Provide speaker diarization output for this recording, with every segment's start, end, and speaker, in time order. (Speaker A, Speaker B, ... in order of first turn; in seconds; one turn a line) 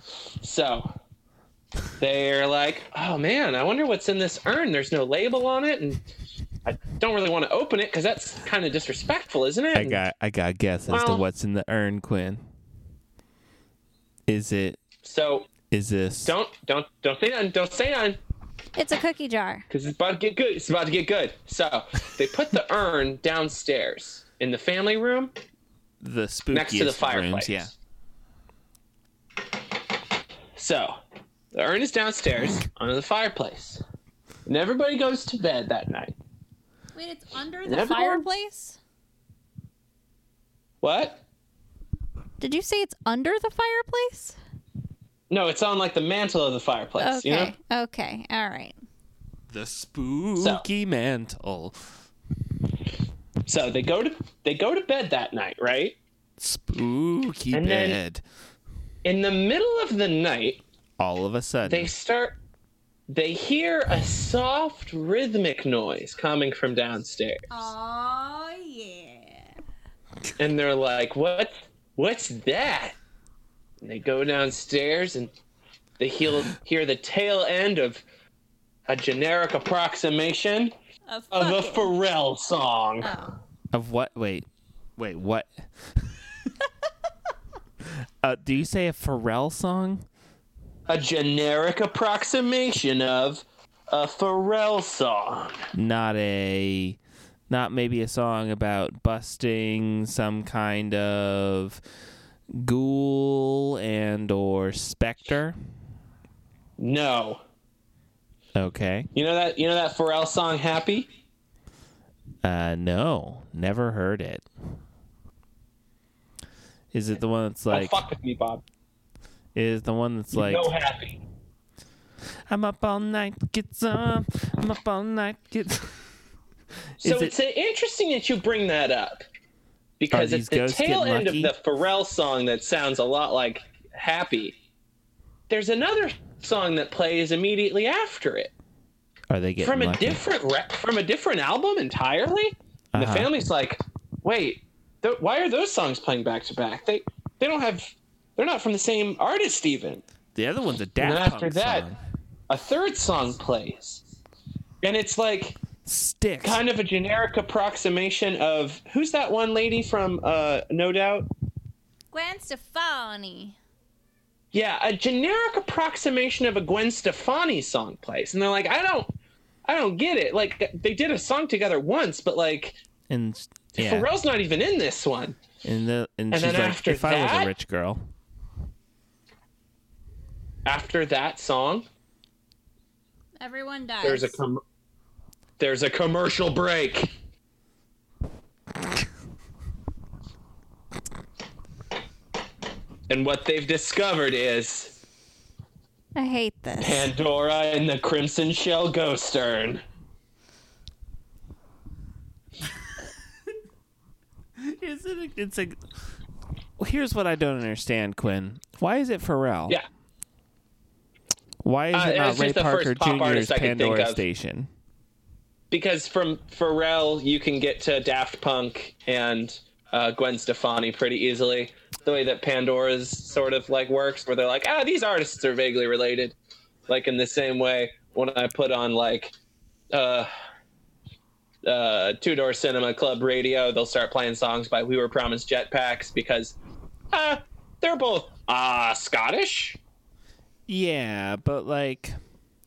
Speaker A: 0.4-0.9
Speaker A: 2.0-6.0
Speaker A: 6.6-10.0
Speaker B: 9.7-12.4
Speaker A: 10.9-11.2
Speaker B: 14.3-14.8
Speaker A: 15.0-15.5
Speaker B: 15.7-16.3
Speaker A: 16.2-18.2
Speaker C: 18.8-19.6
Speaker A: 19.7-25.3
Speaker B: 26.0-27.7
Speaker A: 26.5-27.7
Speaker A: 30.6-30.9
Speaker A: 31.5-33.8
Speaker A: 34.5-36.1
Speaker C: 36.9-38.8
Speaker A: 37.6-38.2
Speaker A: 40.8-41.2
Speaker C: 42.4-44.4
Speaker A: 45.3-47.5
Speaker C: 47.0-48.8
Speaker B: 49.5-51.9
Speaker A: 50.4-50.6
Speaker A: 53.5-56.0
Speaker B: 56.4-58.2
Speaker A: 57.5-58.0
Speaker A: 59.0-60.6
Speaker B: 61.0-61.9
Speaker A: 61.6-62.4
Speaker A: 63.1-67.5
Speaker C: 67.5-69.5
Speaker A: 70.4-72.9
Speaker A: 73.8-75.3
Speaker A: 76.0-78.0
Speaker A: 78.9-80.7
Speaker C: 81.1-81.9
Speaker A: 81.3-83.1
Speaker C: 83.0-83.3
Speaker B: 83.7-86.5
Speaker B: 87.8-90.0
Speaker A: 90.9-95.6
Speaker B: 95.7-101.8
Speaker B: 102.5-105.6
Speaker A: 106.8-107.4
Speaker B: 108.5-109.1
Speaker A: 109.1-111.1
Speaker B: 112.4-114.5
Speaker B: 116.9-118.0
Speaker A: 117.7-118.6
Speaker B: 119.5-120.7
Speaker A: 120.3-121.2
Speaker B: 122.5-126.1
Speaker B: 127.0-127.3
Speaker A: 127.0-129.2
Speaker A: 130.0-134.5
Speaker B: 130.1-131.5
Speaker A: 135.5-138.5
Speaker B: 139.3-140.2
Speaker A: 139.6-150.0
Speaker B: 142.9-143.3
Speaker B: 150.3-152.0
Speaker A: 151.0-151.9
Speaker A: 152.5-154.0
Speaker A: 154.8-155.6
Speaker B: 155.8-156.6
Speaker A: 156.4-161.3
Speaker C: 162.1-163.6
Speaker A: 164.5-169.1
Speaker A: 169.6-172.8
Speaker B: 173.1-174.1
Speaker A: 173.8-175.4
Speaker B: 175.6-178.1
Speaker A: 176.3-177.5
Speaker A: 180.7-181.8
Speaker C: 183.4-184.4
Speaker A: 184.0-184.6
Speaker A: 185.6-187.1
Speaker A: 193.1-194.9
Speaker C: 196.2-197.1
Speaker A: 196.8-199.8
Speaker B: 204.6-205.8
Speaker B: 206.8-209.8
Speaker B: 211.6-214.7
Speaker A: 211.9-214.2
Speaker A: 215.7-226.3
Speaker A: 226.9-229.3
Speaker A: 229.9-230.3
Speaker A: 231.6-236.6
Speaker A: 237.1-239.8
Speaker B: 240.7-242.2